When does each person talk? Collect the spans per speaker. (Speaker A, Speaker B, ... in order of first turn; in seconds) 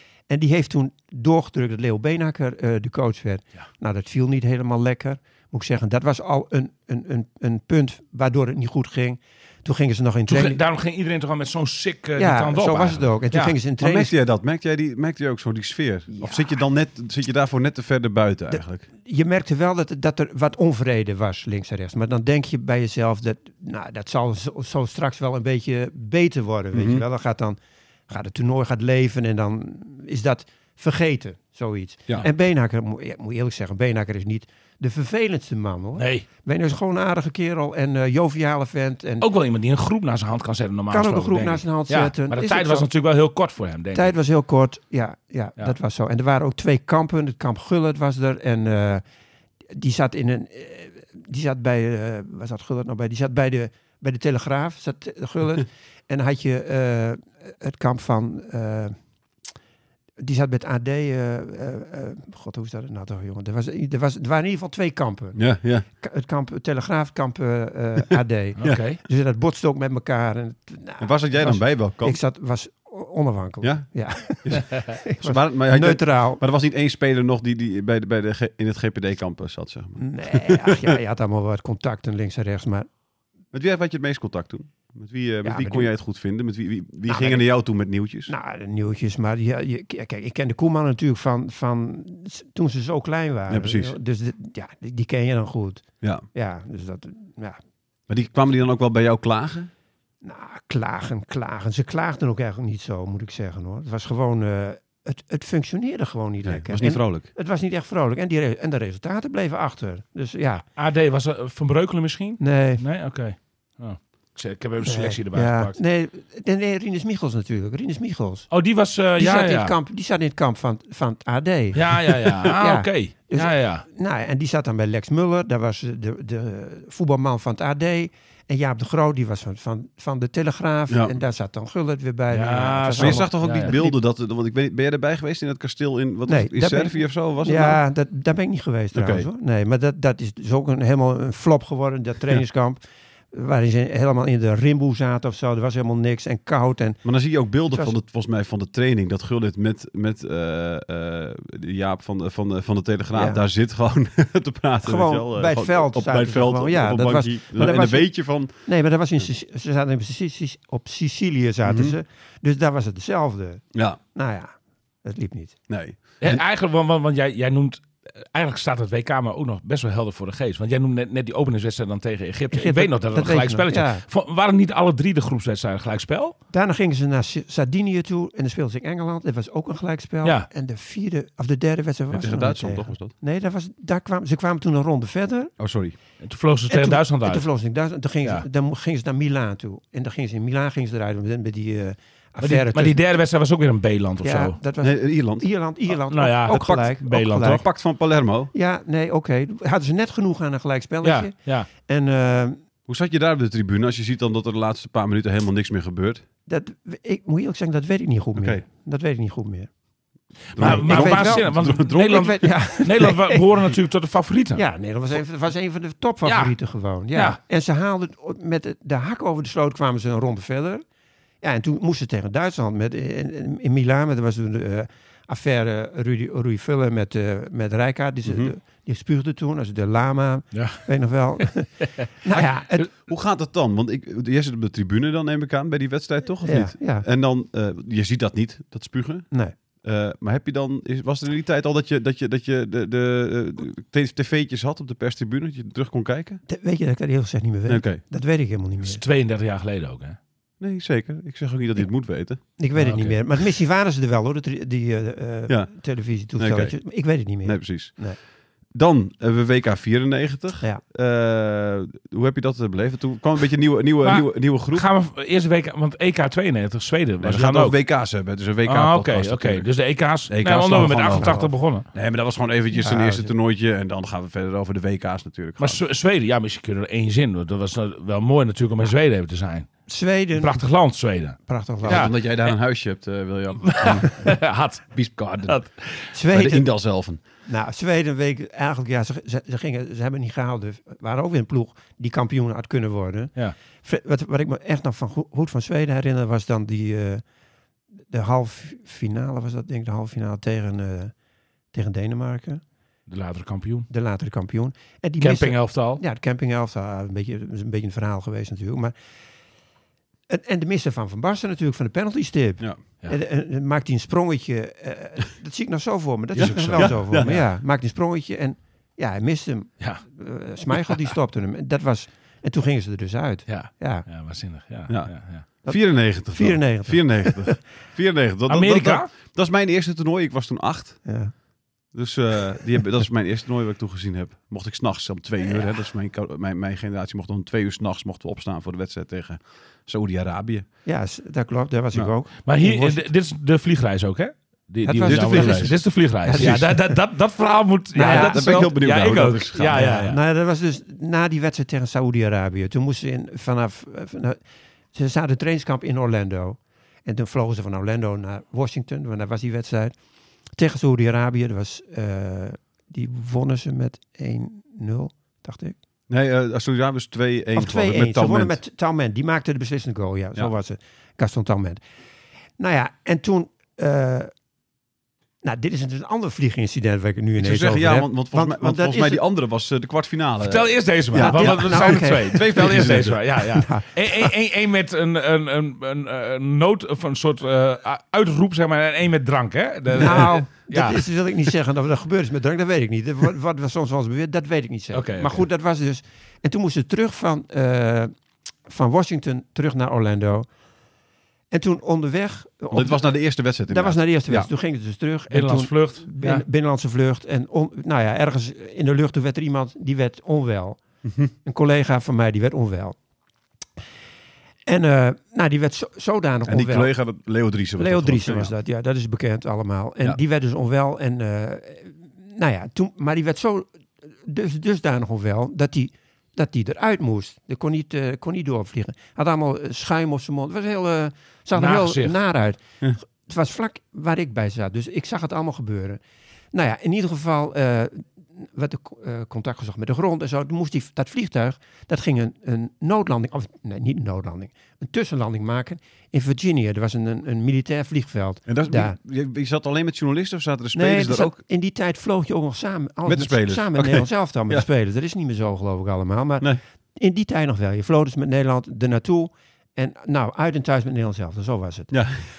Speaker A: 0.3-10.6, 12.2-14.1, 16.1-16.5, 18.5-39.3, 40.9-42.9, 43.9-49.0, 49.7-59.0, 60.2-76.4, 80.0-82.9, 85.4-85.9, 87.1-87.5, 88.3-97.6, 100.2-110.7, 112.4-112.8, 114.8-118.5, 119.2-134.0, 136.3-142.8, 143.3-147.0, 147.7-148.0, 153.1-153.4, 154.8-165.6, 172.5-174.0, 176.5-185.5, 186.7-193.0, 194.2-197.6, 198.5-202.6, 206.5-209.7, 210.6-213.4, 214.6-220.8, 221.4-232.9, 236.4-237.1, 246.5-249.0, 252.6-258.2, 270.7-271.5, 272.8-273.3, 279.9-280.6, 281.5-282.1, 286.1-286.7, 287.5-297.2, 298.1-301.1, 301.7-302.6, 303.9-308.9, 310.3-324.1, 325.6-327.6, 331.1-331.3, 340.9-343.1, 344.8-347.0, 347.9-348.8, 349.7-354.4, 354.9-359.9, 360.6-365.8, 367.6-371.8, 372.6-374.3, 375.4-379.2, 381.2-382.7, 383.6-384.3, 389.9-398.1, 398.7-400.5, 401.5-403.1, 403.7-410.8, 411.4-413.0, 414.7-416.9, 417.8-436.0, 436.5-449.0, 450.8-461.9
Speaker B: 10.3-13.5, 36.0-36.2, 39.2-44.1, 68.6-69.0, 110.8-115.8, 118.5-119.7, 121.8-123.8, 132.3-133.7, 166.2-176.3, 186.2-187.4, 192.4-194.6, 196.1-197.6, 201.0-201.7, 210.5-214.6, 216.2-216.6, 217.1-217.4, 230.5-230.8, 248.8-250.2, 252.8-253.2, 264.0-267.8, 268.6-271.9, 275.6-279.7, 280.4-282.5, 283.6-286.1, 303.1-303.9, 305.2-306.0, 316.4-317.4, 323.5-325.4, 328.5-329.1, 342.5-350.2, 380.4-391.1, 394.9-395.4, 405.3-406.4, 431.6-432.1
Speaker C: 13.8-18.9, 26.7-27.0, 65.4-65.8, 71.0-72.2, 73.6-81.0, 83.5-88.3, 93.5-94.0, 98.1-99.7, 106.4-107.3, 130.9-131.2, 133.0-137.8, 138.9-139.3, 147.0-158.5, 161.7-161.9, 163.7-164.0, 165.7-166.4, 182.1-183.1, 185.6-185.9, 194.8-195.5, 196.5-196.8, 197.3-198.5, 202.9-206.2, 208.4-208.6, 210.6-212.3, 228.2-228.5, 232.9-246.4, 247.7-248.0, 250.6-252.4, 256.4-256.8, 257.4-257.9, 258.7-264.9, 267.2-269.7, 270.3-275.8, 281.8-284.4, 284.9-285.6, 286.3-287.2, 316.4-317.4, 324.9-331.1, 331.9-340.7, 345.1-345.8, 346.4-346.6, 348.0-350.0, 366.1-368.6, 377.4-383.4, 402.7-404.5, 416.5-418.5, 448.5-451.4, 453.1-454.6, 461.9-462.2